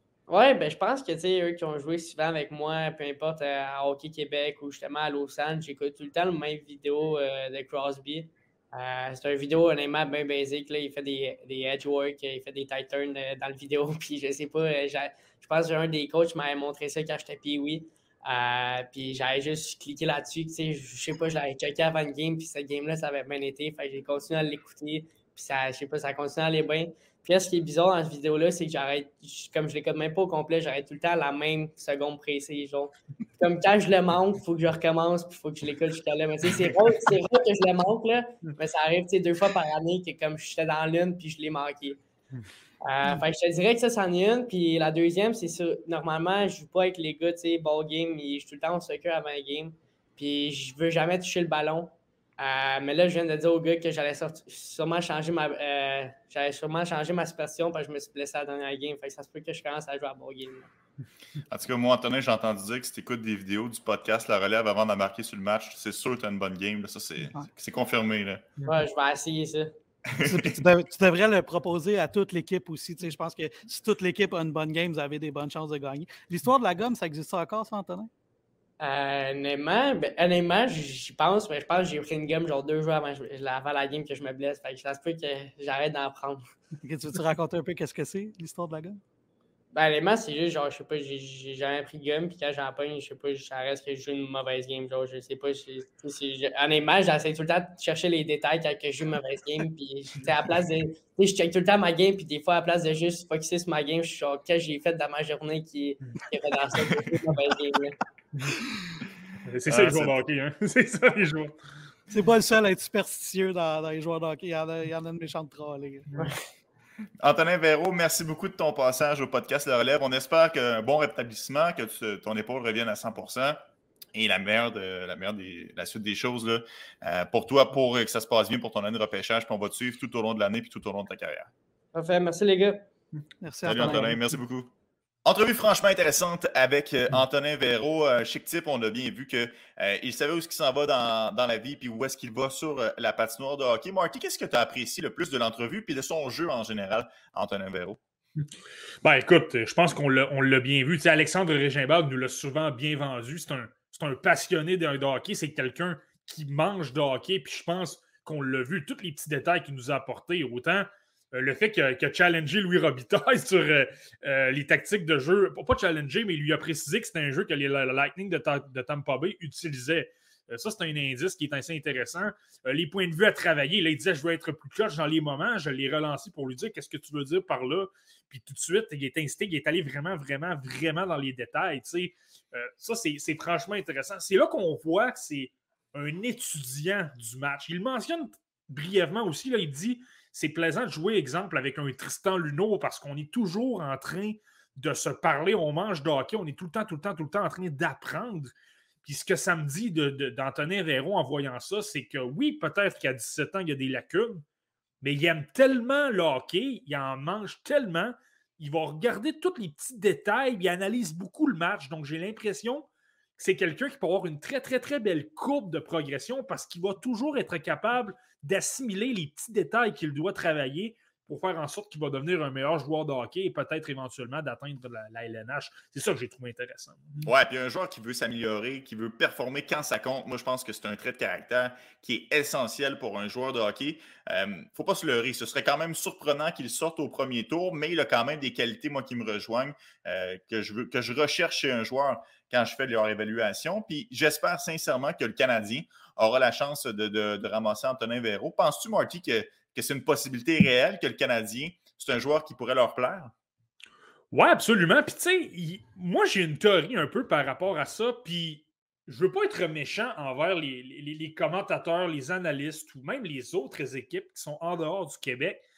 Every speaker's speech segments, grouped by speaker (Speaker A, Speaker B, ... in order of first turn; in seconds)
Speaker A: 0.3-42.0, 42.8-60.7, 68.7-69.7, 78.8-86.4, 89.7-108.0, 131.9-132.9
Speaker B: 61.5-68.5, 70.1-70.6, 109.7-110.1, 117.2-131.5, 133.7-134.7, 135.2-148.0, 227.2-253.3
Speaker C: 70.2-78.1, 86.8-89.0, 112.1-116.1, 133.4-134.2
Speaker D: 109.4-111.5, 149.0-198.5, 199.0-204.4, 205.0-227.3, 254.3-265.6